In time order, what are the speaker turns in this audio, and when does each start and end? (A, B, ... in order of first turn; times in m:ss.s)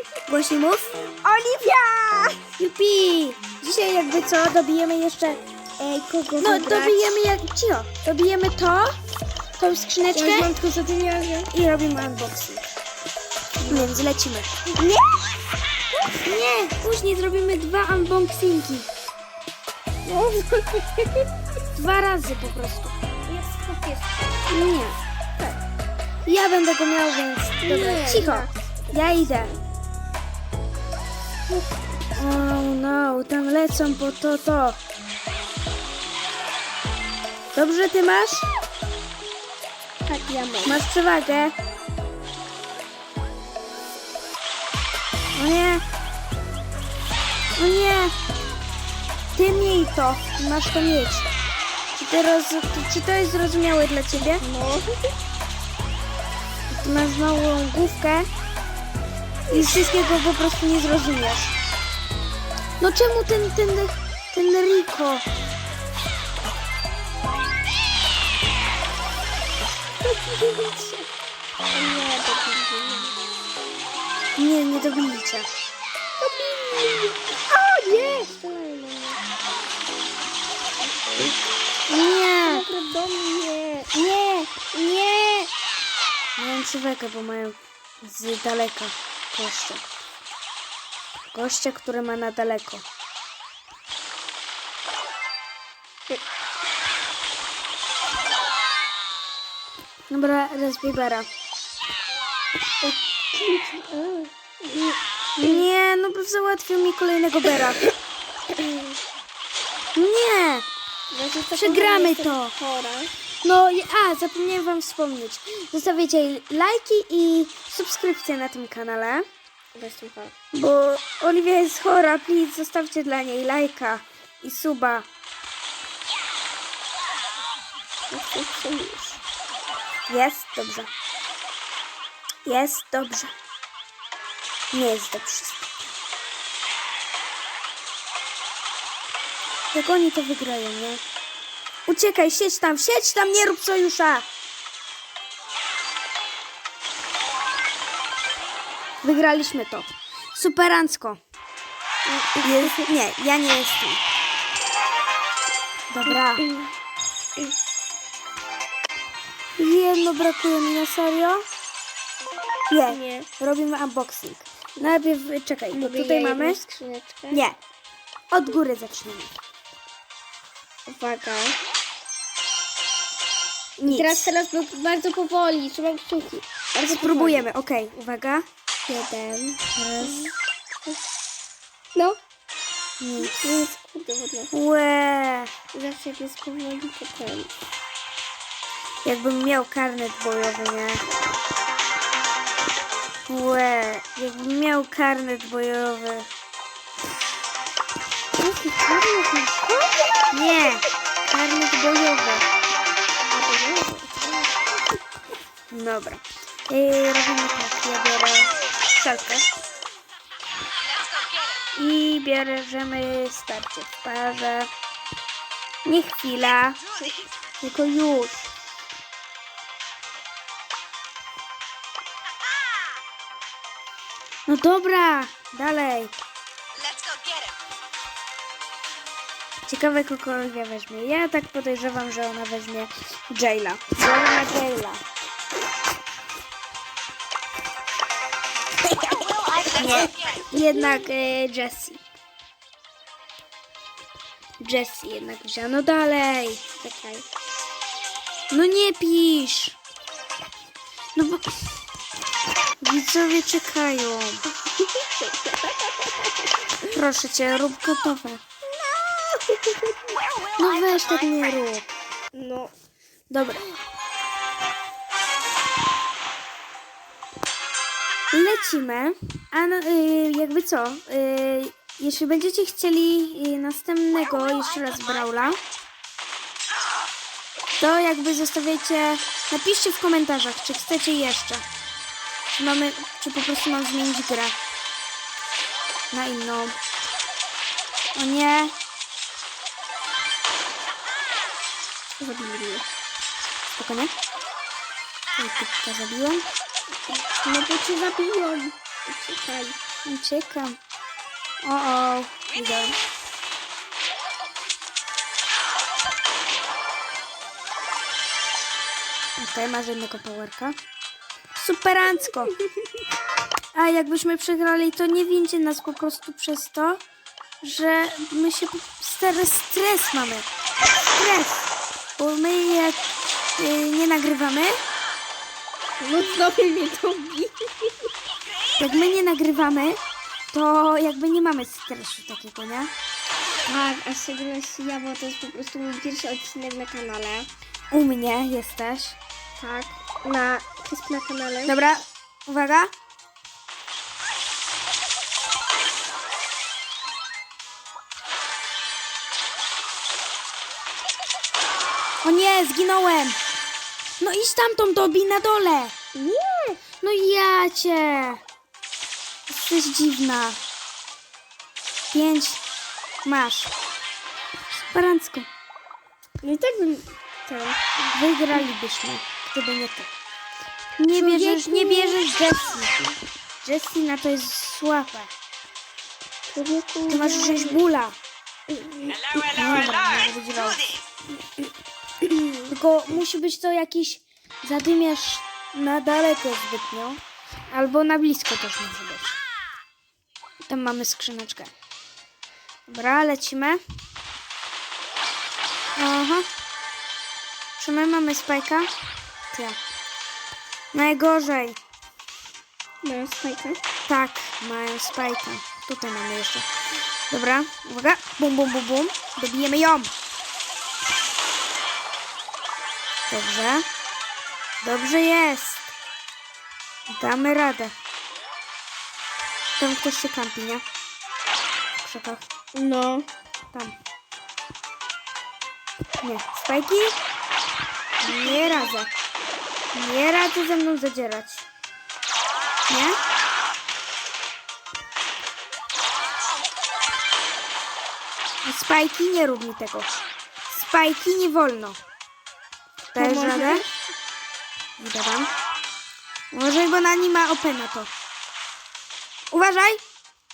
0:00.3-0:00.9 A
0:01.2-0:02.4 B
0:02.6-0:05.4 A
0:05.8-0:07.1 B
0:06.4-0:08.9 A
0:09.6-0:10.5 A
0:10.1-0:11.5 B
0:11.5-0:12.7 A
0:13.6-0:14.0 B
0:13.7-0:14.5 A
0:14.7-0:15.3 B
0:16.2-0:18.9 A
0:20.0-0:21.3 B
0:21.7-0:23.0 A
0:23.2-0:24.2 B
0:24.5-0:25.0 A
0:26.2-0:29.5 A
0:27.6-0:29.5 B
0:32.2-0:34.8 A
0:37.5-0:38.5 A
0:40.0-0:40.9 B
0:40.6-0:41.5 A
0:45.4-0:45.8 A
0:47.6-0:48.1 A
0:49.3-0:51.3 A
0:52.0-0:54.4 A
0:54.1-0:54.9 B
0:56.7-0:58.3 A
0:59.5-1:01.6 A
1:02.8-1:05.2 A
1:10.0-1:11.1 B
1:11.7-1:13.2 B
1:14.4-1:15.5 A
1:16.2-1:19.2 B
1:21.9-1:22.6 A
1:22.4-1:25.5 B
1:26.4-1:29.8 A
1:31.3-1:32.8 A
1:40.1-1:41.3 A
1:42.8-1:45.7 B
1:45.4-1:47.8 A
1:48.5-1:49.0 B
1:49.9-1:50.6 A
1:51.1-1:53.1 B
1:51.5-1:52.5 A
1:53.4-1:59.2 A
1:59.7-2:00.3 B
2:00.5-2:05.0 A
2:08.1-2:09.2 B
2:10.1-2:10.9 A
2:12.4-2:13.3 A
2:14.7-2:15.7 A
2:19.7-2:21.0 A
2:21.9-2:24.2 A
2:29.0-2:31.2 A
2:32.1-2:32.8 B
2:32.4-2:34.0 A
2:35.9-2:36.5 A
2:36.1-2:36.7 B
2:39.6-2:41.4 A
2:42.7-2:46.6 A
2:42.8-2:43.3 B
2:45.7-2:47.4 B
2:47.3-2:47.6 A
2:48.3-2:49.3 A
2:50.8-2:51.6 B
2:53.8-2:54.2 A
2:53.8-2:57.5 B
2:56.8-2:58.4 A
2:58.8-3:00.3 B
2:59.8-3:00.3 A
3:03.0-3:03.3 A
3:03.2-3:04.5 B
3:04.5-3:05.5 A
3:05.7-3:07.5 B
3:09.0-3:11.0 A
3:13.3-3:16.3 A
3:18.4-3:20.0 B
3:20.3-3:22.5 A
3:23.3-3:24.6 B
3:25.7-3:29.5 A
3:31.7-3:34.7 A
3:35.8-3:36.8 A
3:37.6-3:38.3 A
3:44.5-3:46.1 A
3:49.7-3:55.0 A
3:58.9-3:59.7 B
3:59.7-4:02.0 A
4:04.6-4:06.6 A
4:06.8-4:07.2 B
4:08.5-4:09.8 A
4:11.2-4:11.7 A
4:12.8-4:14.4 A
4:14.8-4:16.5 B
4:16.8-4:18.4 A
4:18.6-4:20.2 B
4:20.6-4:21.9 A
4:22.3-4:22.7 B
4:23.3-4:23.7 A
4:28.3-4:35.6 A
4:37.8-4:41.6 A
4:42.6-4:44.6 A
4:46.1-4:46.8 A
4:48.1-4:48.7 A
4:52.2-4:52.9 B
4:53.8-4:54.1 A
4:55.4-4:56.4 A
4:56.9-4:59.8 B
5:00.0-5:00.8 A
5:01.6-5:03.0 A
5:09.4-5:10.8 A
5:11.5-5:12.6 A
5:13.7-5:17.0 A
5:17.6-5:20.5 A
5:21.1-5:21.6 A
5:22.2-5:23.0 A
5:23.6-5:24.8 A
5:26.0-5:28.1 B
5:28.8-5:30.0 A
5:30.5-5:32.9 A
5:33.7-5:37.5 B
5:37.9-5:39.2 A
5:39.6-5:41.7 B
5:41.6-5:42.9 A
5:52.2-5:53.4 A
5:54.2-5:55.9 A
5:56.1-5:56.8 B
5:57.0-5:58.4 A
5:59.5-6:00.6 A
6:02.1-6:02.6 A
6:03.2-6:03.7 A
6:04.7-6:05.5 A
6:06.4-6:07.8 B
6:08.0-6:10.1 A
6:11.0-6:13.0 A
6:11.1-6:12.2 B
6:13.6-6:15.3 A
6:16.5-6:17.8 B
6:17.1-6:18.2 A
6:18.7-6:19.3 B
6:19.3-6:20.8 A
6:22.2-6:22.6 B
6:22.7-6:29.4 A
6:30.6-6:31.7 A
6:32.9-6:33.8 A
6:36.0-6:36.5 A
6:37.8-6:38.9 A
6:39.5-6:39.8 A
6:40.9-6:41.8 A
6:43.0-6:43.8 B
6:44.1-6:46.6 A
6:47.3-6:50.1 A
6:53.3-6:53.8 A
6:54.8-6:55.9 A
6:57.1-6:57.9 A
6:59.8-7:00.8 A
7:02.0-7:02.4 A
7:02.7-7:03.3 B
7:06.2-7:07.2 A
7:08.2-7:09.1 A
7:09.9-7:11.6 A
7:12.9-7:13.2 A
7:18.6-7:22.0 A
7:23.1-7:23.8 A
7:23.2-7:24.0 B
7:25.0-7:25.5 A
7:26.5-7:28.1 A
7:29.5-7:30.0 A